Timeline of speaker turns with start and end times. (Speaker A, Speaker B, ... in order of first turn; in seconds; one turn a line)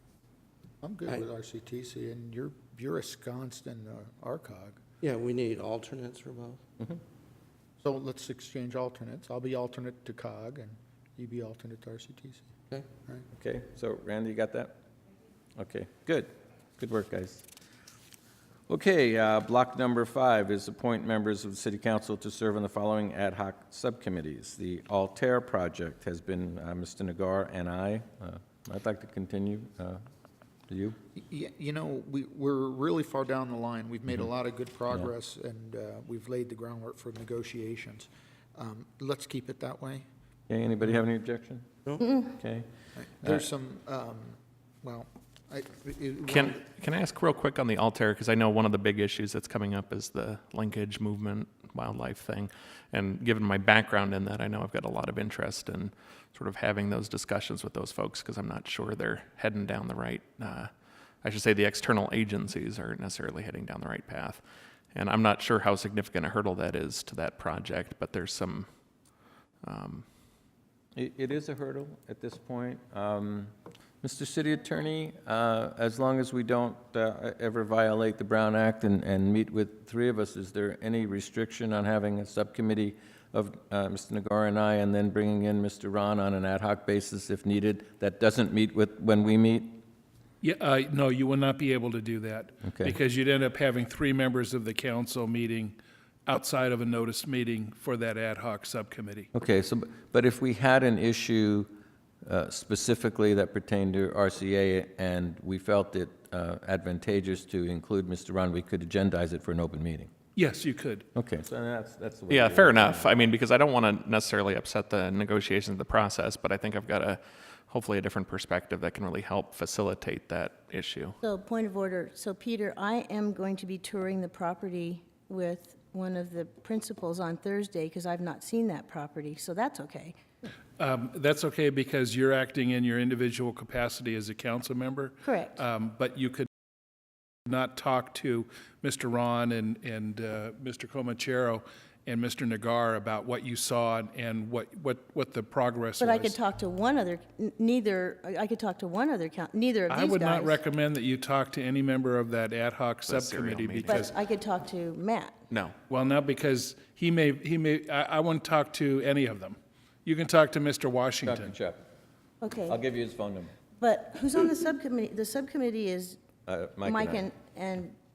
Speaker A: 0.8-4.8
Speaker B: 5.0-6.6
Speaker A: 7.8-12.5
Speaker C: 13.3-14.8
Speaker C: 15.6-17.5
Speaker C: 18.7-30.0
Speaker C: 30.7-31.0
Speaker A: 31.1-40.1
Speaker C: 40.5-42.7
Speaker B: 41.9-42.2
Speaker A: 43.0-46.6
Speaker D: 46.3-60.7
Speaker D: 61.2-64.4
Speaker D: 64.9-68.7
Speaker D: 69.6-70.0
Speaker C: 71.0-89.8
Speaker E: 90.4-99.3
Speaker C: 92.6-92.9
Speaker C: 99.3-101.7
Speaker C: 102.2-110.1
Speaker E: 110.4-111.1
Speaker C: 111.2-113.3
Speaker D: 112.3-121.2
Speaker F: 121.2-130.2
Speaker E: 130.8-136.5
Speaker F: 135.2-135.6
Speaker E: 137.5-146.4
Speaker F: 146.0-150.6
Speaker E: 149.9-154.1
Speaker D: 153.1-154.1
Speaker F: 153.9-155.4
Speaker D: 155.5-155.8
Speaker E: 155.9-161.6
Speaker C: 161.2-161.8
Speaker F: 162.4-162.8
Speaker C: 162.7-163.5
Speaker F: 163.8-166.2
Speaker C: 166.5-167.3
Speaker F: 166.8-168.0